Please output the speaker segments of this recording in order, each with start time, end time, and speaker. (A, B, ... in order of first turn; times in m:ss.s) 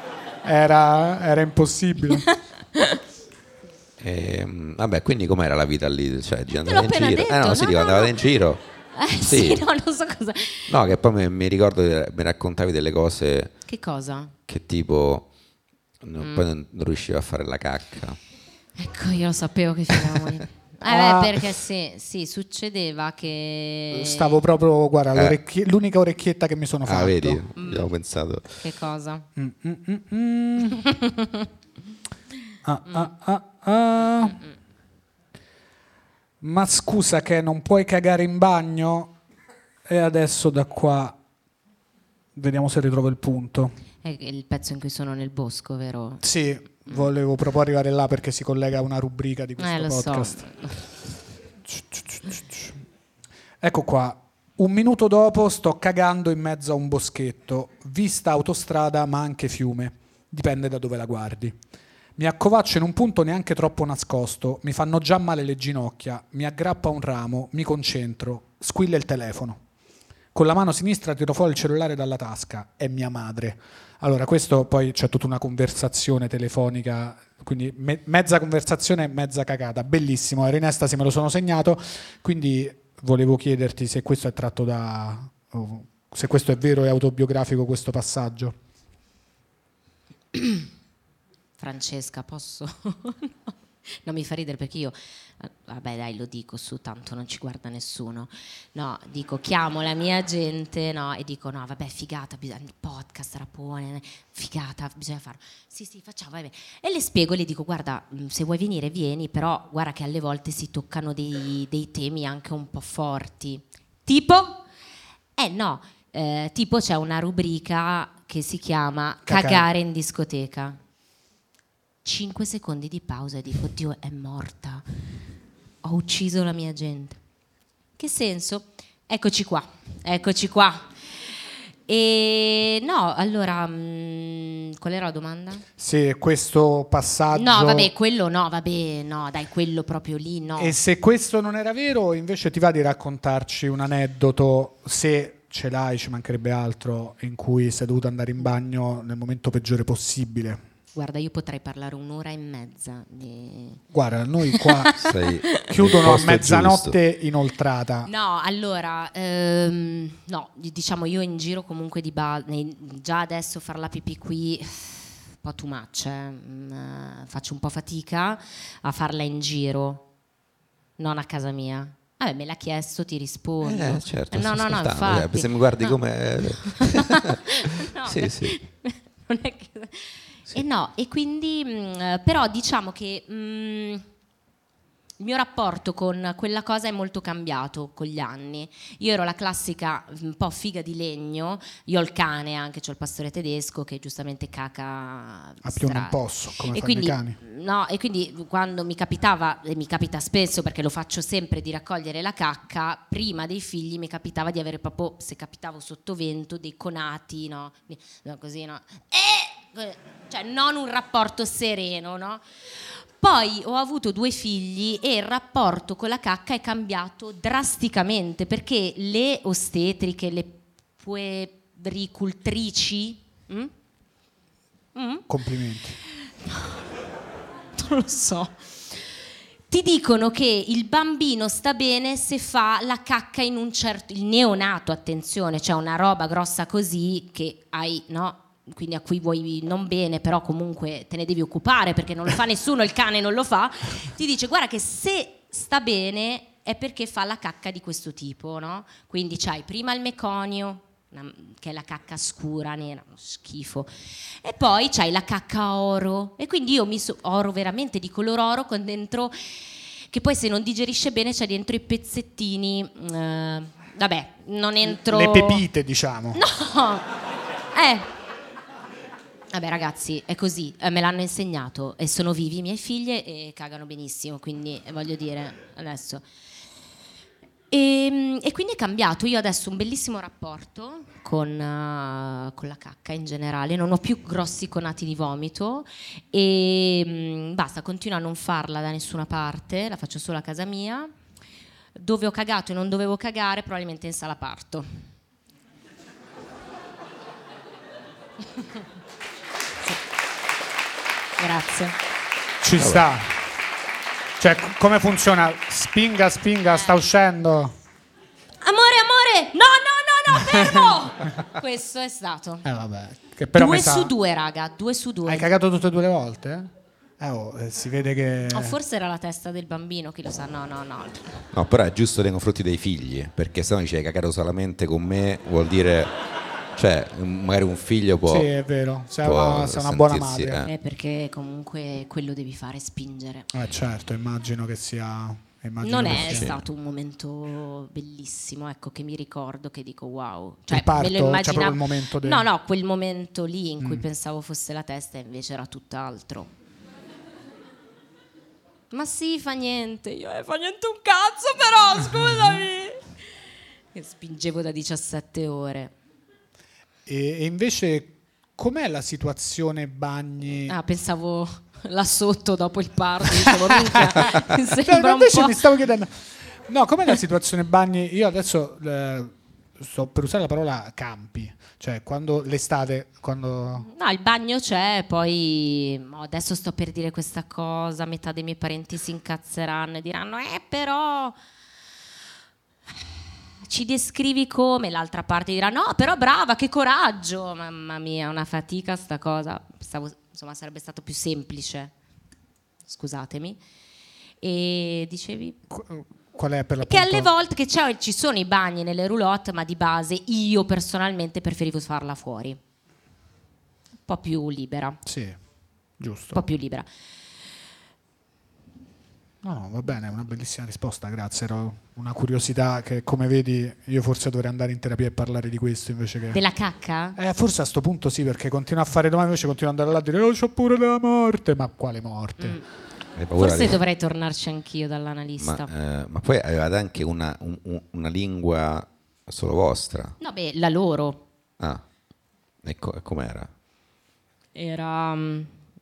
0:00.4-0:02.3 A
0:02.3-0:03.0 B
0:04.0-0:08.6 C
0:06.6-0:08.2 B
0:09.0-0:10.8 B
0:09.2-0:09.6 C
0:10.7-0:13.6 C
0:13.7-0:14.3 B
0:14.5-0:15.3 C
0:16.0-0:18.2 C
0:16.2-0:16.5 B
0:18.8-0:24.4 B
0:20.8-0:21.4 A
0:23.9-0:27.4 A
0:26.9-0:28.6 C
0:27.6-0:27.9 B
0:28.5-0:29.3 B
0:29.4-0:30.9 A
0:30.6-0:31.5 B
0:32.6-0:34.4 A
0:36.4-0:39.2 A
0:39.9-0:41.2 A
0:42.4-0:43.8 A
0:44.0-0:46.2 B
0:46.2-0:50.6 A
0:49.6-0:50.8 B
0:51.6-0:52.8 A
0:53.6-1:01.6 A
1:02.2-1:09.6 A
1:10.3-1:28.6 A
1:30.3-1:30.7 B
1:31.6-1:54.6 B
1:55.4-2:00.8 B
1:59.2-1:59.7 A
2:02.0-2:04.8 B
2:05.8-2:07.2 B
2:08.0-2:10.9 B
2:11.9-2:15.6 B
2:15.8-2:17.9 A
2:17.3-2:20.8 B
2:20.6-2:30.6 A
2:31.0-2:33.8 B
2:33.9-2:34.9 A
2:34.5-2:35.7 B
2:35.0-2:37.0 C
2:35.6-2:38.1 A
2:38.0-2:50.0 B
2:51.0-2:56.0 B
2:53.6-2:58.6 C
2:56.5-3:04.1 B
3:05.2-3:32.4 B
3:15.6-3:17.4 A
3:33.2-3:43.7 B
3:45.0-3:45.3 B
3:45.3-3:46.0 A
3:46.4-3:46.8 B
3:47.8-3:49.0 B
3:49.7-4:25.6 B
4:24.8-4:26.4 A
4:26.3-4:27.2 B
4:27.7-4:28.1 B
4:29.5-4:36.3 B
4:37.7-4:51.1 B
4:52.0-4:54.9 B
5:01.4-5:02.0 B
5:02.6-5:03.3 A
5:02.8-5:03.0 C
5:04.4-5:07.7 A
5:08.6-5:12.6 B
5:10.3-5:11.0 A
5:12.6-5:14.1 A
5:13.5-5:15.5 B
5:15.3-5:18.8 A
5:18.5-5:21.5 B
5:21.5-5:26.1 C
5:26.8-5:28.5 C
5:28.2-5:30.6 A
5:29.2-5:30.7 C
5:30.6-5:33.5 B
5:33.5-5:36.6 A
5:35.8-5:46.5 B
5:36.1-5:36.6 C
5:40.7-5:42.5 A
5:43.8-5:44.1 A
5:48.9-5:53.1 B
5:53.9-5:55.9 B
5:57.1-6:00.8 A
6:00.7-6:05.6 B
6:03.4-6:13.9 A
6:13.8-6:21.4 B
6:23.6-6:31.9 B
6:32.9-6:33.6 B
6:34.4-6:35.6 B
6:35.7-6:37.3 A
6:36.8-6:42.6 B
6:44.1-6:45.0 B
6:45.0-6:45.4 A
6:46.0-6:46.4 A
6:46.3-6:46.9 B
6:49.4-6:56.4 A
6:56.3-6:57.2 B
6:57.2-7:02.6 A
7:02.4-7:02.6 B
7:03.2-7:03.8 C
7:03.4-7:05.7 B
7:05.4-7:10.2 C
7:10.2-7:11.2 B
7:12.6-7:13.5 C
7:14.6-7:15.6 B